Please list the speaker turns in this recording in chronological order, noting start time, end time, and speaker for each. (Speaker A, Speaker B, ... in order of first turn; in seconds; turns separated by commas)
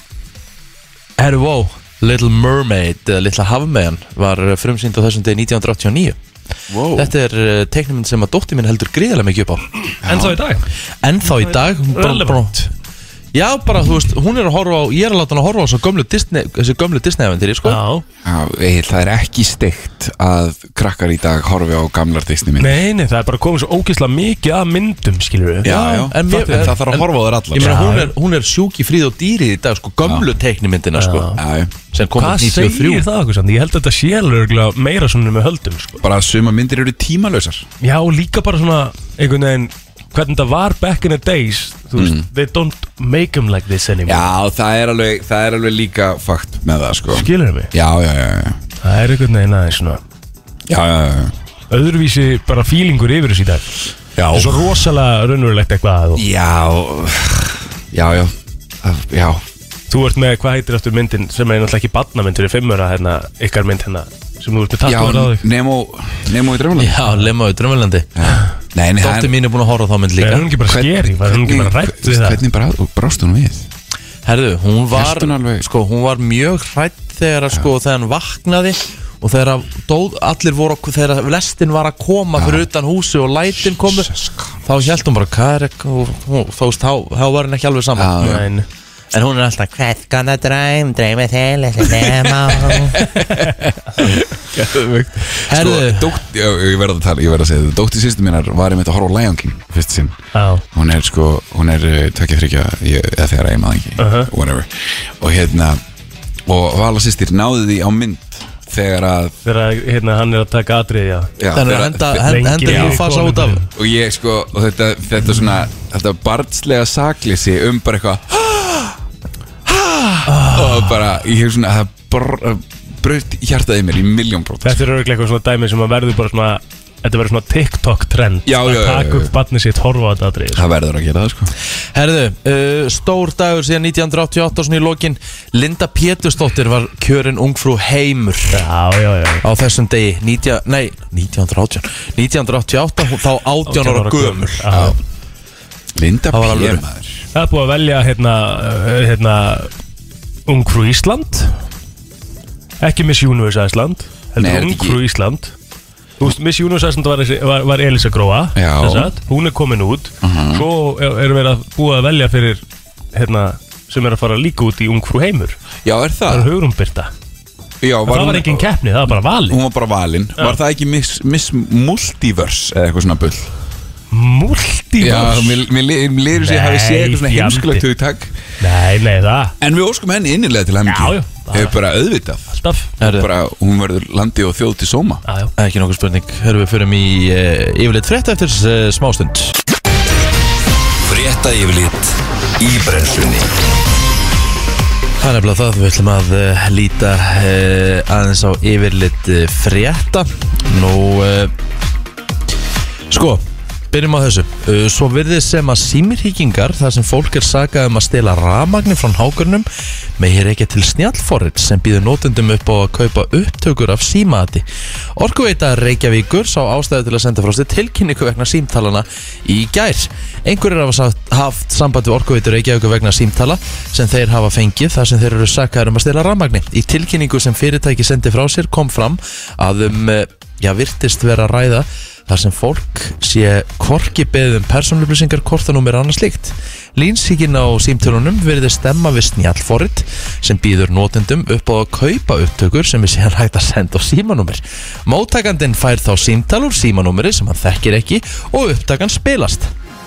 Speaker A: 1.2-6.2, Speaker B: 6.7-7.1, Speaker A: 7.0-9.7, Speaker B: 10.0-10.4, Speaker C: 10.0-10.6, Speaker A: 11.0-12.7, Speaker C: 11.3-12.6, Speaker A: 13.3-17.8, Speaker C: 17.6-18.1, Speaker B: 18.2-22.8, Speaker C: 22.6-25.7, Speaker B: 25.6-27.8, Speaker A: 25.6-31.3, Speaker C: 26.2-26.8, Speaker C: 27.6-28.1, Speaker C: 31.0-31.4, Speaker B: 31.4-31.7, Speaker A: 31.9-33.0, Speaker C: 32.2-36.0, Speaker B: 36.0-37.7, Speaker C: 37.8-44.3, Speaker B: 42.0-42.3, Speaker B: 44.1-48.6, Speaker C: 47.1-47.7, Speaker C: 48.8-50.0, Speaker B: 50.7-51.3, Speaker C: 51.7-53.7, Speaker B: 54.2-54.8, Speaker C: 54.3-56.2, Speaker B: 56.2-59.5, Speaker C: 59.9-65.4, Speaker B: 64.8-67.1, Speaker A: 66.8-68.1, Speaker B: 68.2-69.4, Speaker A: 69.0-70.5, Speaker C: 70.2-72.4, Speaker B: 70.7-73.7, Speaker A: 74.2-84.1, Speaker B: 74.9-75.7, Speaker B: 82.4-82.7, Speaker B: 83.6-84.9, Speaker A: 84.7-88.4, Speaker B: 88.0-88.5, Speaker C: 88.2-88.7, Speaker A: 89.1-90.0, Speaker D: 90.0-93.0, Speaker B: 92.7-100.2, Speaker A: 95.5-96.2, Speaker C: 100.3-100.6, Speaker B: 100.7-105.8, Speaker C: 104.0-104.3, Speaker B: 106.5-109.4, Speaker C: 109.5-111.3, Speaker B: 111.4-113.1, Speaker A: 111.5-113.6, Speaker C: 112.2-113.7, Speaker B: 113.7-119.0, Speaker B: 119.7-124.8, Speaker C: 120.3-121.0, Speaker C: 124.6-130.6, Speaker B: 128.5-129.3, Speaker B: 130.5-131.5, Speaker A: 131.9-138.6, Speaker C: 138.5-139.4, Speaker A: 139.4-144.8, Speaker C: 143.7-144.9, Speaker B: 144.7-145.0, Speaker B: 146.0-147.3, Speaker A: 146.3-146.8, Speaker C: 147.3-149.7, Speaker C: 150.5-151.6, Speaker C: 152.8-155.5, Speaker B: 154.4-155.0, Speaker C: 156.2-162.6, Speaker B: 158.6-159.1, Speaker B: 160.2-160.7, Speaker C: 163.1-165.6, Speaker B: 165.8-166.5, Speaker C: 166.3-167.1, Speaker B: 167.8-168.7, Speaker C: 168.1-169.6, Speaker B: 169.5-173.5, Speaker C: 174.1-175.7, Speaker B: 175.0-178.3, Speaker C: 176.3-177.8, Speaker C: 178.6-179.6, Speaker B: 179.6-185.2, Speaker C: 180.9-181.8, Speaker C: 182.5-182.9, Speaker A: 183.0-183.3, Speaker C: 185.3-185.5, Speaker A: 185.6-189.6, Speaker E: 191.1-193.5, Speaker A: 195.2-201.5, Speaker A: 203.1-209.7, Speaker A: 210.2-214.7, Speaker A: 215.2-249.7